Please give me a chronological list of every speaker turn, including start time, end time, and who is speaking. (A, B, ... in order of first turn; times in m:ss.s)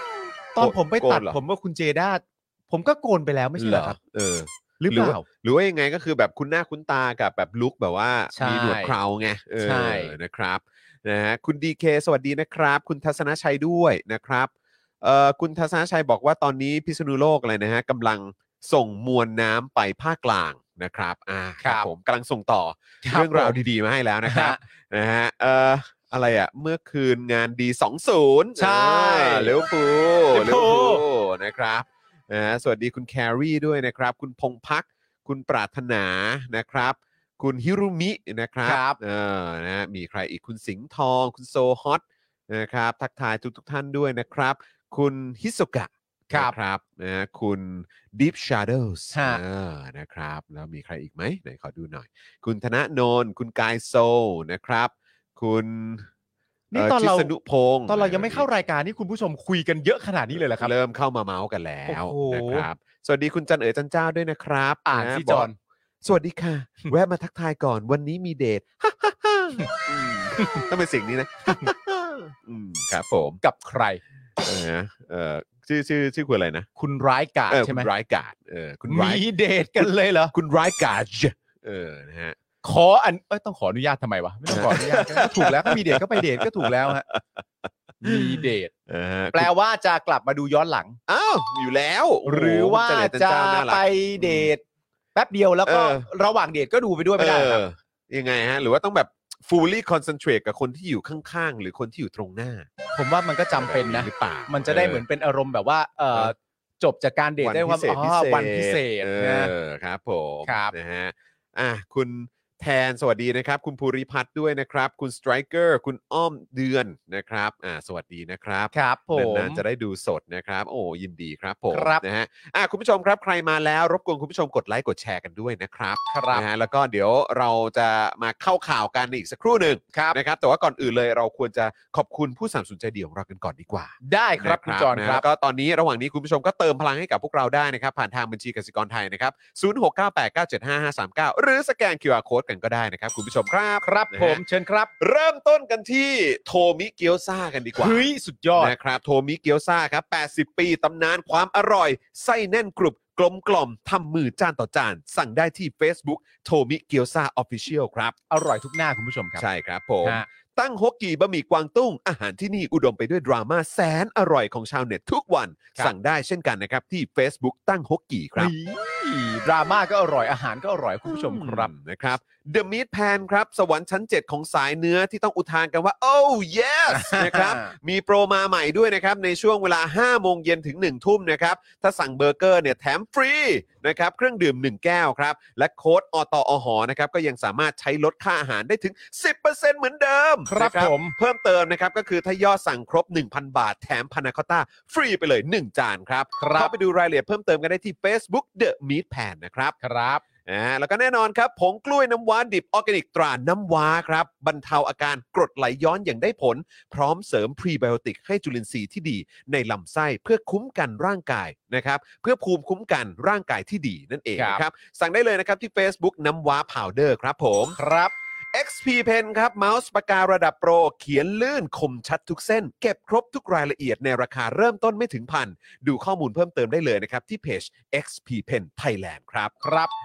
0:00.5-0:04.0 A
0:00.6-0:01.4 B
0:03.6-0:56.1 B
0:04.8-0:05.2 A
0:08.3-0:09.0 A
0:09.6-0:10.1 A
0:21.6-0:21.9 A
0:23.0-0:23.6 A
0:24.2-0:24.6 A
0:28.6-0:29.6 A
0:30.3-0:31.0 A
0:38.6-0:39.0 A
0:46.3-0:46.5 A
0:49.1-0:49.4 A
0:56.7-0:57.3 A
0:56.7-0:58.4 B
0:57.9-1:00.7 A
1:00.5-1:05.5 B
1:01.9-1:02.7 A
1:04.8-1:05.6 A
1:06.0-1:13.4 B
1:09.6-1:10.6 A
1:13.4-1:14.0 A
1:14.4-1:16.7 B
1:16.8-1:17.9 A
1:17.5-1:19.2 B
1:18.9-1:20.3 A
1:19.8-1:22.4 B
1:22.6-1:27.0 A
1:24.5-1:27.2 B
1:28.0-1:28.7 A
1:28.0-1:29.5 B
1:29.3-1:31.0 A
1:31.1-1:34.5 B
1:32.2-1:34.6 A
1:35.1-1:37.6 A
1:35.7-1:36.1 B
1:37.2-1:42.7 B
1:42.9-1:49.5 A
1:43.5-1:45.0 B
1:47.4-2:24.4 B
1:50.4-1:50.7 A
1:58.7-1:59.6 A
2:01.7-2:02.0 A
2:06.1-2:06.4 A
2:09.9-2:10.2 A
2:14.0-2:15.2 A
2:23.8-2:24.9 A
2:25.0-2:28.0 B
2:27.8-2:28.7 A
2:28.6-2:38.1 B
2:38.3-2:39.4 A
2:39.4-2:48.5 B
2:48.4-2:51.7 A
2:51.1-3:19.8 B
2:56.9-2:57.7 A
3:10.5-3:11.2 A
3:16.4-3:16.7 A
3:19.8-3:20.2 A
3:20.4-3:37.8 B
3:34.4-3:34.6 A
3:37.8-3:38.1 A
3:38.5-3:49.5 B
3:49.6-3:49.9 A